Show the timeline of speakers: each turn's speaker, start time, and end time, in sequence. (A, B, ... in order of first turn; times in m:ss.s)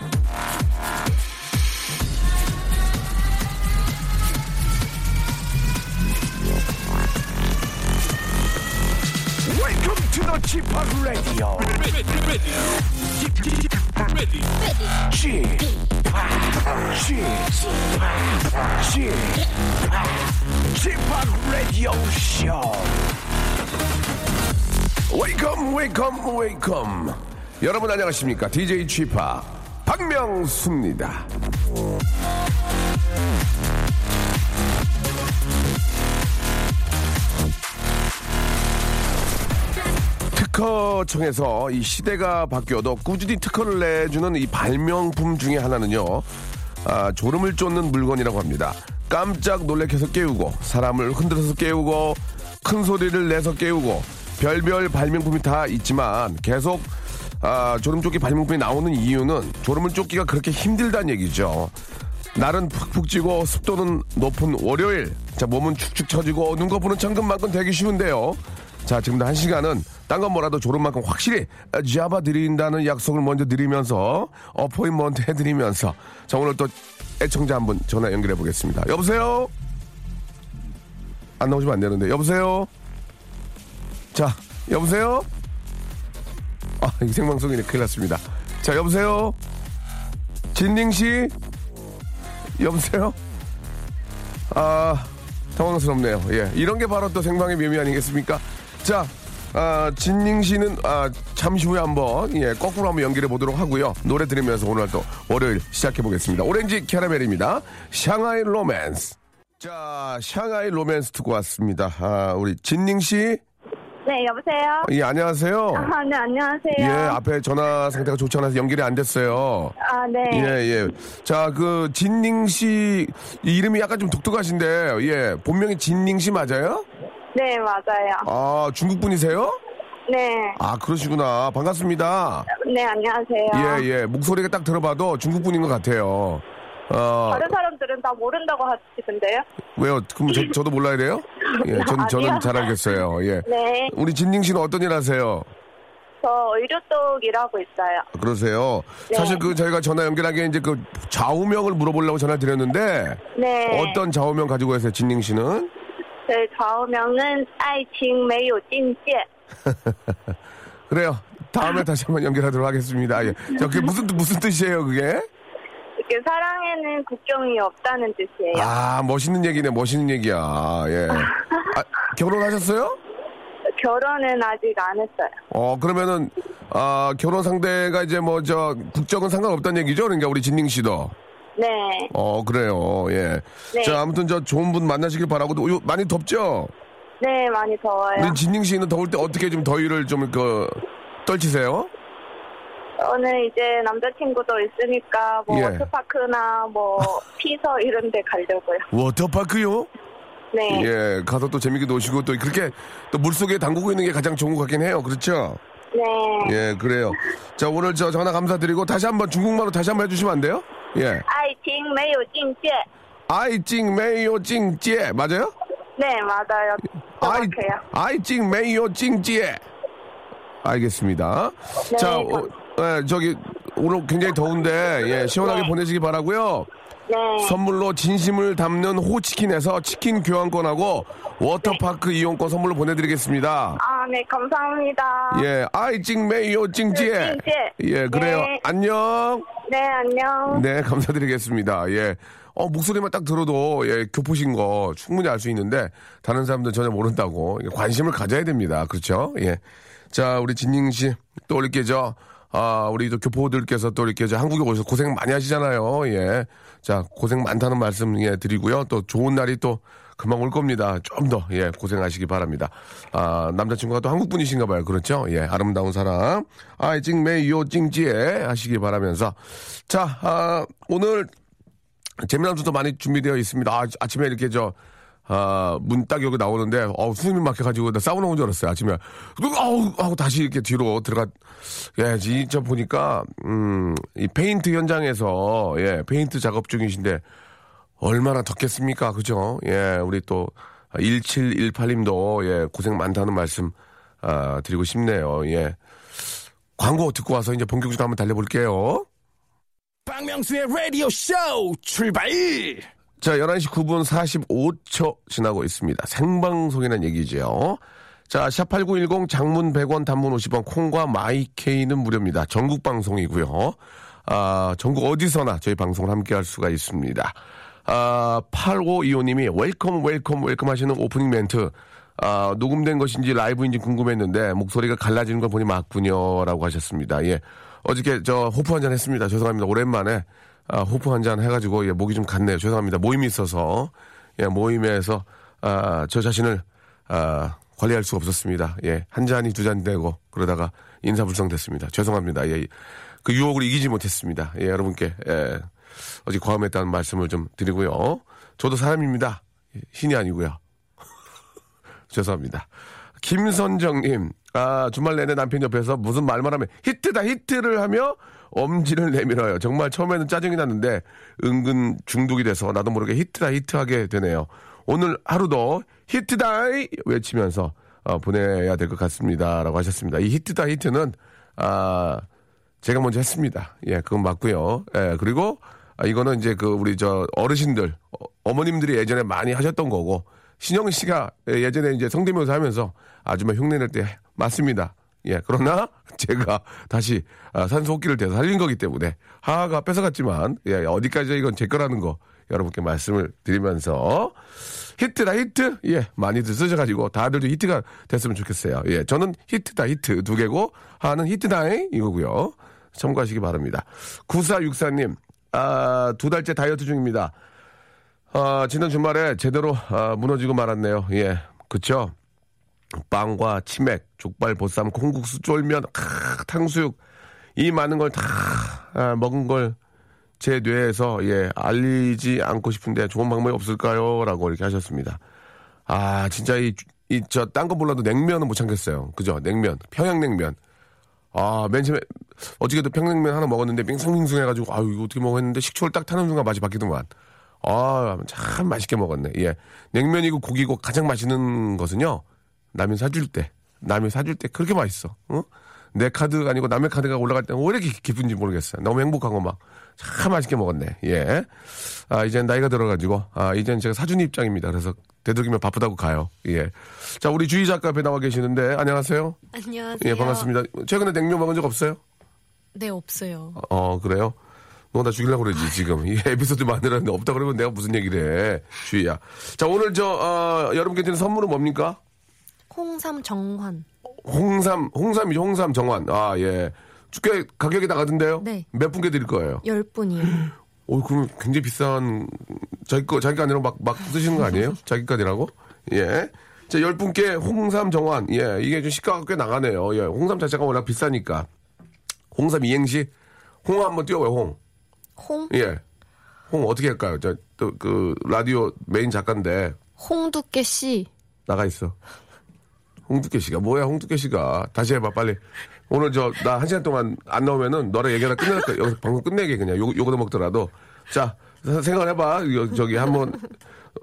0:09.4-0:11.8 A
0:15.0-0:23.0 A
0:25.1-0:31.3 A
0:40.3-0:46.3 A
0:46.8-1:01.7 A
1:02.3-1:19.5 A
1:21.4-1:22.7 A
1:24.1-1:25.3 A
1:26.8-1:29.4 A
1:30.5-1:31.3 A
1:32.6-1:33.2 A
1:34.5-1:53.4 A
1:54.0-1:54.9 B
1:54.8-1:55.9 A
1:55.7-1:57.2 B
1:56.8-1:59.7 A
1:59.8-2:00.6 B
2:00.3-2:06.9 A
2:07.3-2:08.3 B
2:08.2-2:09.6 A
2:10.1-2:10.6 B
2:10.6-2:12.5 A
2:12.5-2:13.8 B
2:13.5-2:17.5 A
2:17.3-2:19.4 B
2:19.8-2:25.5 A
2:21.5-2:22.7 B
2:23.4-2:23.9 B
2:26.2-2:28.0 B
2:28.1-2:35.7 A
2:29.1-2:29.4 B
2:33.3-2:34.0 B
2:36.3-2:39.2 B
2:39.6-2:40.3 A
2:40.9-2:45.3 A
2:46.0-2:48.7 B
2:48.5-2:53.0 A
2:53.8-2:55.3 B
2:55.5-3:01.1 A
3:01.6-3:02.1 B
3:02.1-3:06.7 A
3:03.7-3:04.0 B
3:07.2-3:08.4 B
3:08.2-3:11.9 A
3:13.0-3:18.9 B
3:15.5-3:15.9 A
3:18.9-3:19.9 A
3:20.5-3:20.9 B
3:20.7-3:25.6 A
3:25.9-3:26.6 B
3:26.4-3:31.2 A
3:31.3-3:32.8 B
3:33.3-3:35.5 A
3:36.0-3:37.8 B
3:37.2-3:39.6 A
3:40.6-3:46.7 A
3:41.9-3:42.5 B
3:45.4-3:45.7 B
3:47.1-3:47.6 B
3:47.4-3:53.8 A
3:53.8-3:55.5 B
3:55.3-3:59.5 A
3:56.9-3:58.6 B
3:59.6-4:00.6 B
4:00.5-4:09.6 A
4:10.1-4:31.3 A
4:32.2-4:34.8 A
4:35.3-4:47.2 A
4:48.0-4:55.8 A
4:56.8-4:59.1 A
5:00.1-5:02.9 C
5:03.2-5:42.7 A
5:43.2-5:45.7 A
5:46.2-5:50.6 A
5:52.1-5:52.7 A
5:53.2-6:12.2 A
6:12.8-6:34.3 A
6:35.0-6:47.3 A
6:48.3-6:52.1 A
6:53.1-6:57.0 A
6:57.6-6:59.8 A
7:00.4-7:05.2 A
7:05.9-7:10.6 A
7:11.3-7:17.1 A
7:17.6-7:22.2 A
7:22.7-7:39.4 A
7:39.5-7:40.5 D
7:40.0-7:42.0 A
7:42.7-7:43.6 D
7:43.5-7:44.4 A
7:44.9-7:52.0 A
7:52.7-7:53.8 D
7:54.2-7:59.6 A
7:58.4-7:58.6 D
7:59.6-8:00.5 D
8:00.9-8:11.5 A
8:12.3-8:13.1 A
8:13.6-8:14.6 A
8:15.2-8:15.5 D
8:15.5-8:15.8 A
8:16.5-8:19.8 A
8:20.0-8:21.1 D
8:21.5-8:22.0 A
8:23.1-8:33.5 A